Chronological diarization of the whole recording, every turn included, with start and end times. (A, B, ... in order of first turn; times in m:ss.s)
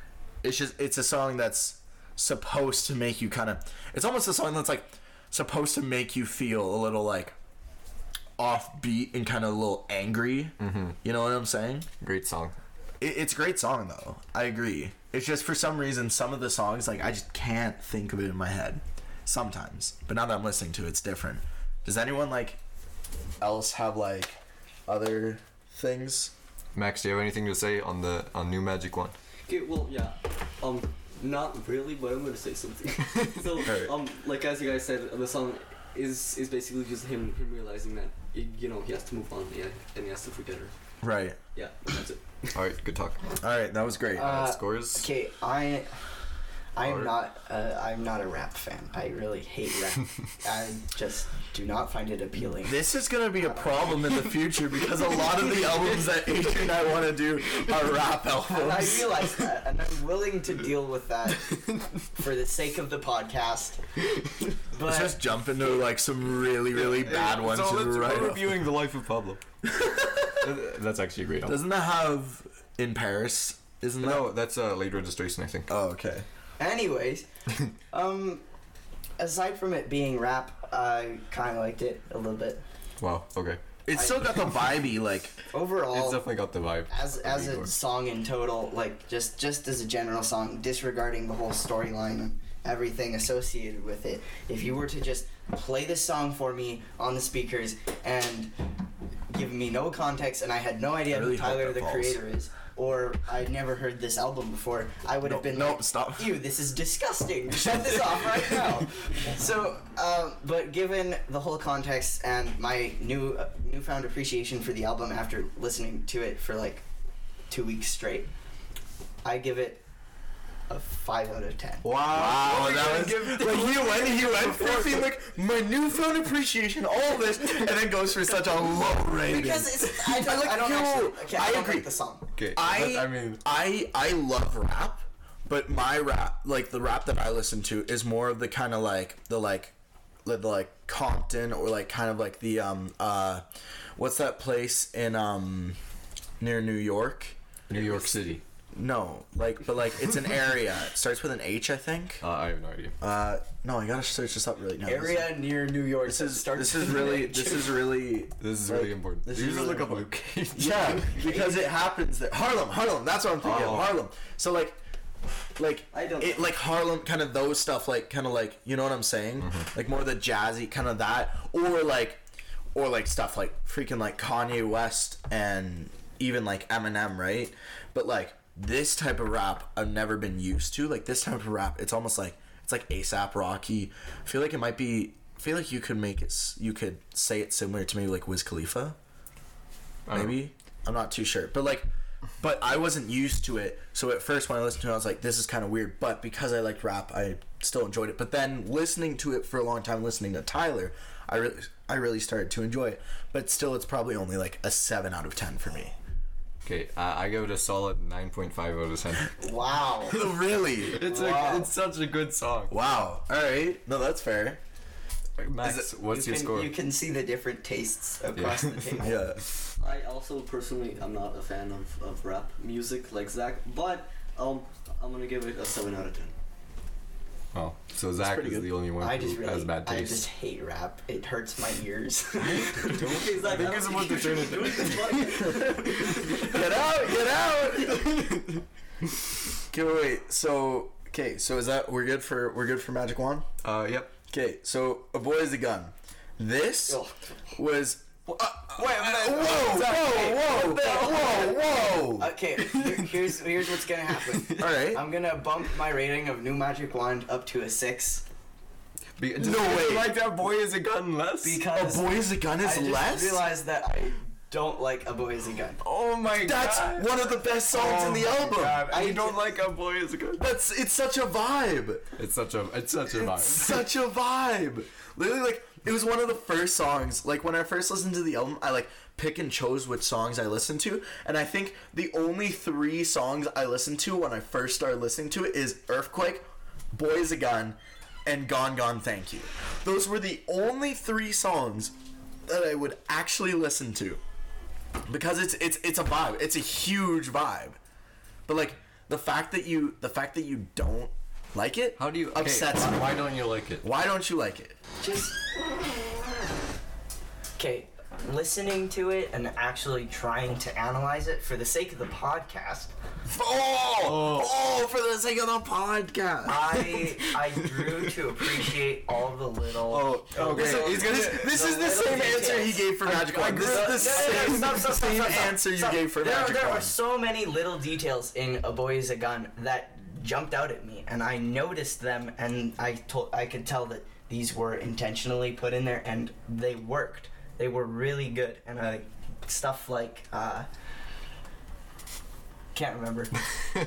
0:00.4-0:07.3 A
0:08.4-0:11.9 A
0:10.6-0:11.0 B
0:12.0-0:12.6 B
0:13.0-0:22.6 A
0:23.4-0:26.3 A
0:26.7-0:29.1 B
0:29.5-0:40.7 C
0:33.6-0:33.9 A
0:41.0-0:41.4 A
0:41.5-0:42.6 C
0:42.5-0:43.2 B
0:43.4-0:44.4 A
0:44.1-0:46.0 D
0:44.2-0:45.1 B
0:46.7-0:52.8 D
0:46.8-0:47.1 B
0:52.6-0:59.2 A
0:53.4-0:53.8 D
0:58.5-1:03.8 D
1:04.7-1:05.2 D
1:04.8-1:08.7 A
1:06.7-1:09.4 B
1:09.7-1:10.4 A
1:10.3-1:11.6 B
1:11.4-1:14.3 A
1:14.0-1:15.7 B
1:15.7-1:16.2 A
1:16.6-1:17.3 D
1:17.9-1:18.4 D
1:19.2-1:22.6 D
1:23.0-1:23.6 B
1:23.8-1:25.3 A
1:23.9-1:24.2 D
1:25.5-1:26.2 D
1:25.9-1:27.7 B
1:26.9-1:38.5 D
1:39.3-1:56.8 D
1:41.1-1:42.2 A
1:45.2-1:46.4 A
1:57.5-1:58.3 D
1:59.2-1:59.8 D
2:00.7-2:01.8 D
2:01.8-2:05.0 B
2:02.0-2:11.9 A
2:09.2-2:12.2 D
2:12.4-2:13.4 B
2:12.5-2:19.7 A
2:20.2-2:23.4 A
2:24.0-2:25.8 A
2:26.4-2:27.4 A
2:27.7-2:28.4 B
2:28.7-2:32.2 A
2:32.2-2:33.0 B
2:33.0-2:35.4 A
2:34.8-2:37.7 D
2:36.0-2:44.8 A
2:38.4-2:41.1 B
2:39.5-2:39.9 D
2:41.0-2:41.6 D
2:43.4-2:44.0 B
2:45.6-2:52.2 A
2:45.9-2:46.4 C
2:49.4-2:49.7 B
2:52.7-3:09.0 A
3:10.1-3:10.4 B
3:10.1-3:11.9 A
3:12.4-3:25.9 A
3:26.6-3:29.3 B
3:29.4-3:30.2 D
3:30.1-3:31.3 A
3:30.9-3:32.7 B
3:31.2-3:31.6 D
3:32.7-3:34.6 A
3:35.4-3:36.7 B
3:35.6-3:35.9 A
3:36.0-3:39.3 D
3:38.4-3:39.0 B
3:39.0-3:39.4 A
3:39.8-3:46.4 C
3:47.5-3:50.2 B
3:48.2-3:48.7 A
3:49.0-3:53.2 D
3:52.7-3:56.5 B
3:53.0-3:56.6 C
3:53.5-3:53.8 A
3:56.2-3:58.3 A
3:57.9-3:58.5 B
3:59.7-4:03.5 A
4:03.6-4:04.1 B
4:04.3-4:07.0 A
4:06.9-4:07.1 D
4:07.5-4:12.3 A
4:08.7-4:18.2 D
4:12.6-4:13.4 B
4:14.3-4:14.7 B
4:14.6-4:15.0 A
4:19.2-4:21.6 B
4:19.4-4:20.2 A
4:21.4-4:25.8 D
4:21.7-4:23.4 A
4:25.8-4:30.4 B
4:26.4-4:28.9 A
4:28.6-4:29.5 D
4:30.4-4:32.1 A
4:32.2-4:33.8 B
4:33.2-4:51.9 A
4:52.4-4:54.2 A
4:55.1-4:57.8 A
4:58.5-5:03.2 A
5:02.0-5:03.8 B
5:03.8-5:04.8 A
5:05.0-5:05.6 D
5:07.6-5:12.9 D
5:13.3-5:17.0 A
5:14.0-5:14.5 B
5:16.4-5:40.7 D
5:19.9-5:21.6 B
5:20.4-5:26.9 A
5:23.0-5:24.8 B
5:42.7-5:43.4 D